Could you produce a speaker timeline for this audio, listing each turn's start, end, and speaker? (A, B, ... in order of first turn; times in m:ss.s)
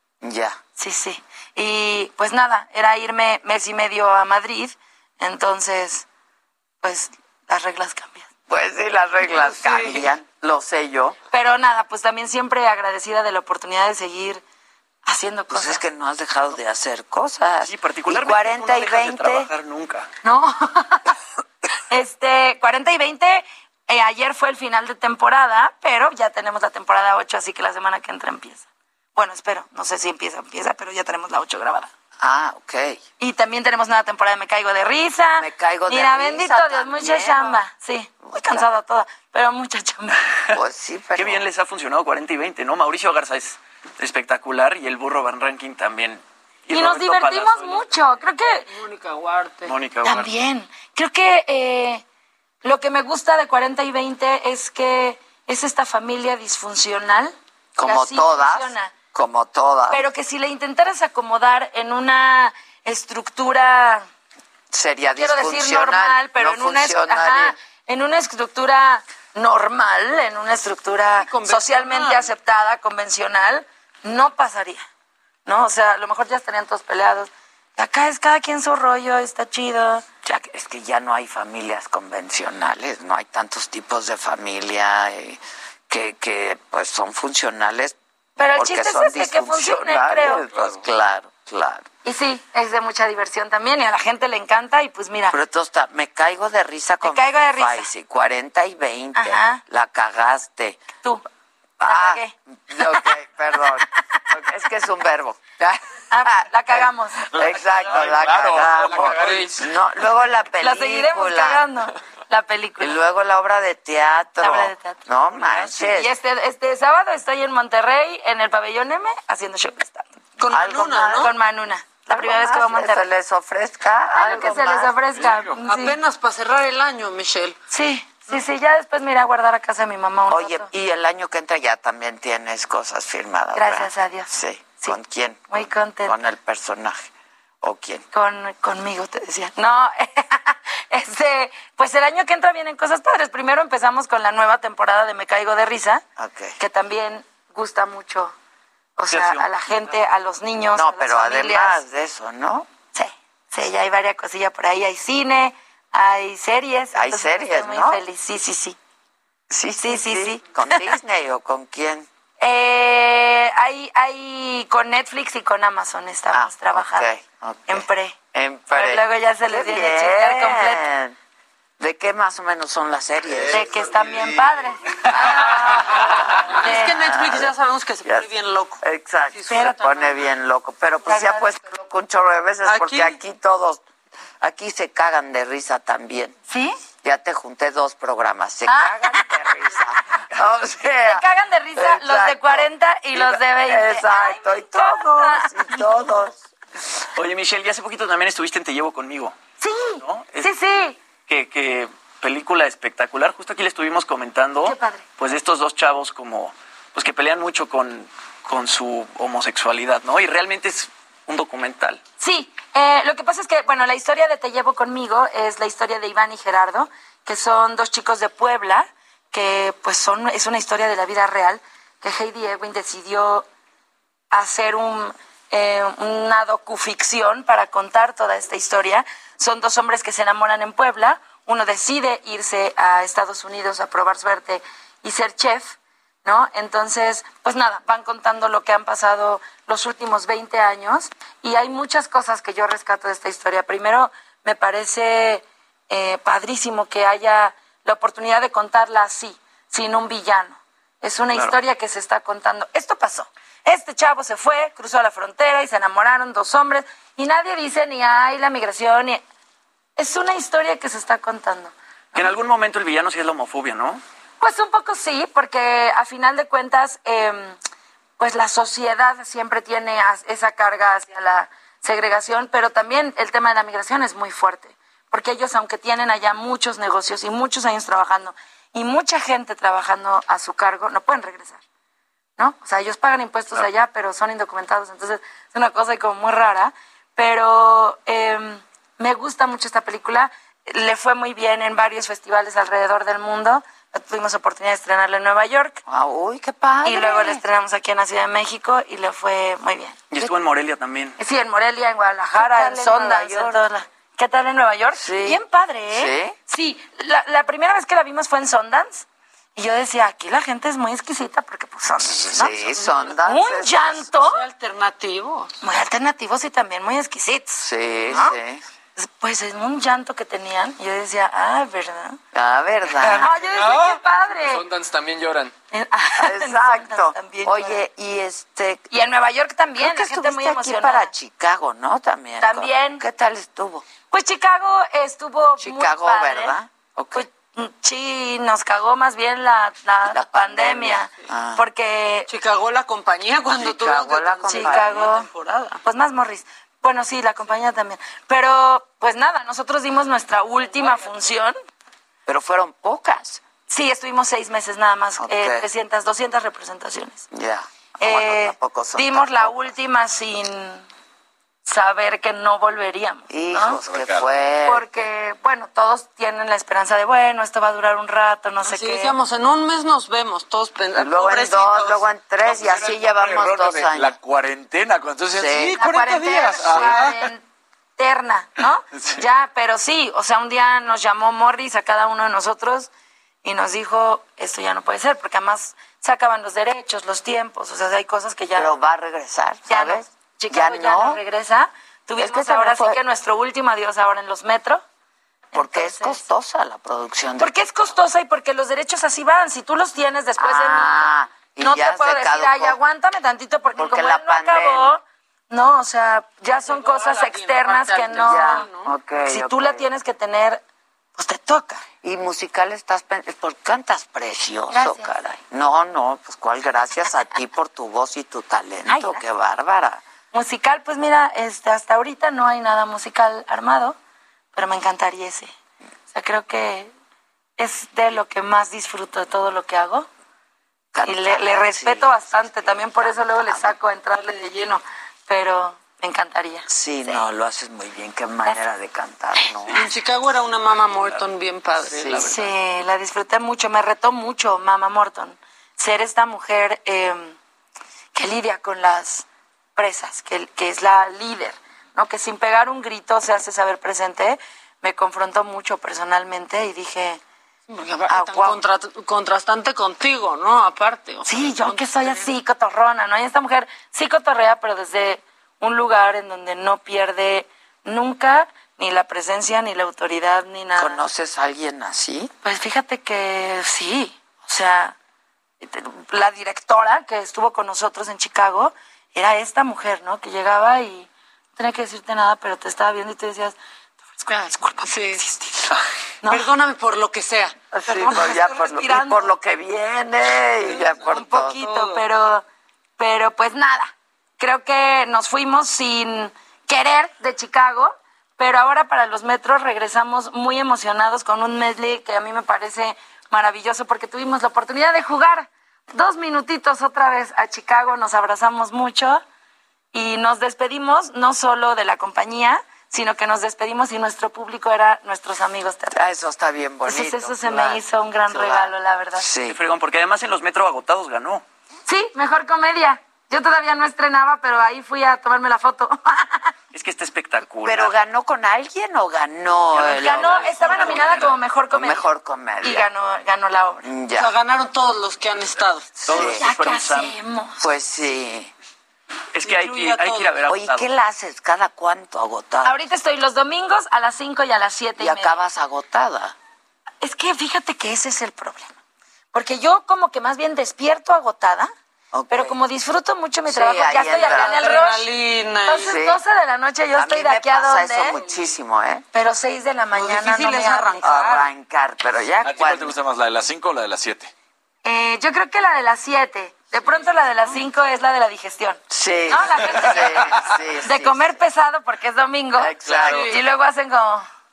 0:00.2-0:00.6 A
0:00.8-0:06.0 B
0:06.8-0:08.3 B
0:08.5-0:11.2 A
0:11.3-0:14.4 B
0:15.0-0:15.8 B
0:15.5-0:19.5 A
0:17.6-0:20.1 C
0:20.2-0:21.1 B
0:21.9-0:28.6 B
0:29.2-0:31.9 B
0:32.2-0:33.0 A
0:33.2-0:40.2 B
0:35.4-0:37.6 A
0:38.2-0:38.7 A
0:40.5-0:41.4 A
0:41.2-0:48.1 C
0:46.7-0:48.7 B
0:48.7-0:49.8 D
0:49.7-0:50.3 C
0:50.0-0:52.0 B
0:52.6-0:58.9 B
0:57.8-1:00.0 A
0:59.9-1:04.0 B
1:04.7-1:07.6 A
1:05.1-1:14.8 B
1:11.2-1:12.3 D
1:15.4-1:20.0 B
1:20.2-1:28.0 A
1:28.4-1:30.5 B
1:28.5-1:31.9 A
1:32.0-1:35.4 B
1:35.3-1:40.8 A
1:37.0-1:37.9 B
1:39.2-1:39.6 B
1:41.8-1:42.3 B
1:41.8-1:51.6 A
1:46.1-1:47.3 B
1:47.8-1:49.6 E
1:50.6-1:53.0 B
1:52.8-1:56.2 A
1:54.4-2:00.1 B
2:00.4-2:01.3 D
2:00.5-2:01.4 A
2:01.1-2:03.1 B
2:02.0-2:05.3 A
2:04.1-2:06.0 B
2:05.6-2:07.6 D
2:07.7-2:10.7 B
2:10.3-2:17.1 A
2:13.5-2:15.0 B
2:15.5-2:16.2 B
2:17.6-2:18.0 A
2:18.1-2:26.0 B
2:26.2-2:26.6 A
2:26.6-2:28.3 B
2:29.0-2:31.8 B
2:29.1-2:29.5 C
2:30.7-2:32.7 A
2:32.9-2:38.8 B
2:36.9-2:38.0 A
2:39.5-2:42.1 A
2:39.8-2:40.9 B
2:42.4-2:47.1 B
2:46.3-2:51.2 A
2:47.7-2:48.2 B
2:48.7-2:50.8 B
2:51.8-2:53.9 A
2:53.4-2:57.1 B
2:55.1-2:57.5 A
2:56.5-3:00.2 D
2:58.0-2:58.3 A
2:58.8-3:03.8 A
3:01.0-3:01.5 B
3:02.6-3:03.2 D
3:04.4-3:06.4 A
3:06.5-3:06.8 B
3:07.0-3:11.2 A
3:08.7-3:09.8 B
3:11.0-3:16.1 B
3:11.7-3:16.4 A
3:17.1-3:19.4 C
3:19.6-3:21.0 B
3:20.0-3:20.5 C
3:21.2-3:32.0 C
3:24.6-3:25.0 B
3:32.2-3:43.4 B
3:44.3-4:19.2 B
4:20.0-4:22.3 B
4:22.1-4:24.0 C
4:24.4-4:27.6 B
4:28.2-4:41.6 B
4:42.4-4:55.8 B
4:55.8-4:57.4 A
4:56.8-5:00.0 B
5:00.1-5:01.2 C
5:01.2-5:14.4 B
5:02.3-5:03.7 A
5:04.9-5:06.4 A
5:12.0-5:14.0 A
5:12.6-5:13.2 D
5:14.2-5:15.6 D
5:15.6-5:18.4 B
5:17.6-5:18.6 A
5:19.0-5:22.2 B
5:22.3-5:23.3 A
5:23.1-5:24.6 B
5:23.2-5:25.5 E
5:25.7-5:27.8 B
5:26.2-5:28.8 A
5:28.9-5:31.1 B
5:29.8-5:33.9 A
5:32.4-5:33.0 B
5:34.1-5:36.5 B
5:35.6-5:37.3 A
5:37.1-5:42.3 B
5:40.0-5:41.6 A
5:42.3-5:45.8 D
5:43.5-5:45.2 A
5:44.5-5:45.3 B
5:45.8-5:51.6 B
5:52.2-5:53.4 A
5:53.7-5:57.2 B
5:55.2-5:55.7 A
5:57.3-5:59.8 A
5:58.0-6:00.8 B
6:01.6-6:03.8 B
6:03.3-6:04.9 A
6:03.8-6:04.2 F
6:04.6-6:09.1 B
6:08.6-6:12.0 D
6:10.9-6:14.2 A
6:12.4-6:15.6 F
6:15.3-6:15.8 A
6:15.5-6:17.2 D
6:15.6-6:17.4 B
6:16.6-6:17.0 F
6:18.0-6:22.9 B
6:23.4-6:28.7 B
6:28.5-6:31.2 A
6:29.7-6:34.8 B
6:32.2-6:33.0 A
6:35.5-6:36.2 B
6:35.5-6:37.6 A
6:37.4-6:48.7 B
6:40.4-6:42.8 A
6:43.7-6:44.9 A
6:46.5-6:48.9 D
6:48.2-6:49.9 A
6:49.2-6:50.6 B
6:51.2-6:51.8 B
6:52.0-7:00.0 A
6:54.7-6:55.1 B
6:58.8-6:59.2 B
7:00.3-7:04.0 B
7:04.5-7:05.5 B
7:06.1-7:06.9 B
7:07.6-7:10.1 B
7:10.9-7:13.8 A
7:11.0-7:17.2 B
7:16.7-7:19.9 A
7:19.7-7:22.3 D
7:21.8-7:22.5 A
7:22.2-7:27.4 B
7:28.1-7:29.2 B
7:29.8-7:37.2 B
7:37.7-7:42.3 D
7:38.1-7:38.6 A
7:41.2-7:51.0 B
7:50.8-7:52.3 A
7:52.4-7:54.9 B
7:55.6-8:03.6 B
8:04.2-8:05.6 B
8:04.3-8:05.2 D
8:06.3-8:08.3 D
8:07.7-8:11.6 A
8:07.8-8:09.3 B
8:10.7-8:12.0 D
8:11.0-8:12.4 B
8:13.0-8:29.2 B
8:29.9-8:36.0 B
8:35.9-8:39.6 A
8:36.8-8:39.3 B
8:39.4-8:41.4 C
8:41.9-8:46.5 B
8:46.7-8:47.9 C
8:47.6-8:52.9 A
8:49.8-8:51.4 C
8:49.8-8:52.0 B
8:50.3-8:51.0 D
8:52.6-8:53.8 B
8:53.8-8:54.3 A
8:54.1-8:56.7 D
8:56.0-8:56.5 A
8:56.1-8:57.7 B
8:56.1-8:57.1 C
8:57.6-8:58.5 A
8:59.3-9:00.9 C
8:59.4-9:00.3 D
9:00.5-9:02.8 A
9:02.6-9:05.4 B
9:04.9-9:06.4 A
9:07.0-9:08.7 B
9:09.3-9:11.7 B
9:12.1-9:12.6 A
9:12.3-9:15.0 B
9:13.4-9:14.8 A
9:14.1-9:16.0 D
9:15.6-9:18.2 B
9:15.9-9:16.2 A
9:16.9-9:19.0 A
9:19.1-9:21.3 B
9:19.9-9:21.4 D
9:20.0-9:22.9 A
9:22.4-9:24.3 F
9:24.8-9:34.3 B
9:28.9-9:31.4 A
9:32.5-9:33.4 A
9:32.9-9:33.4 D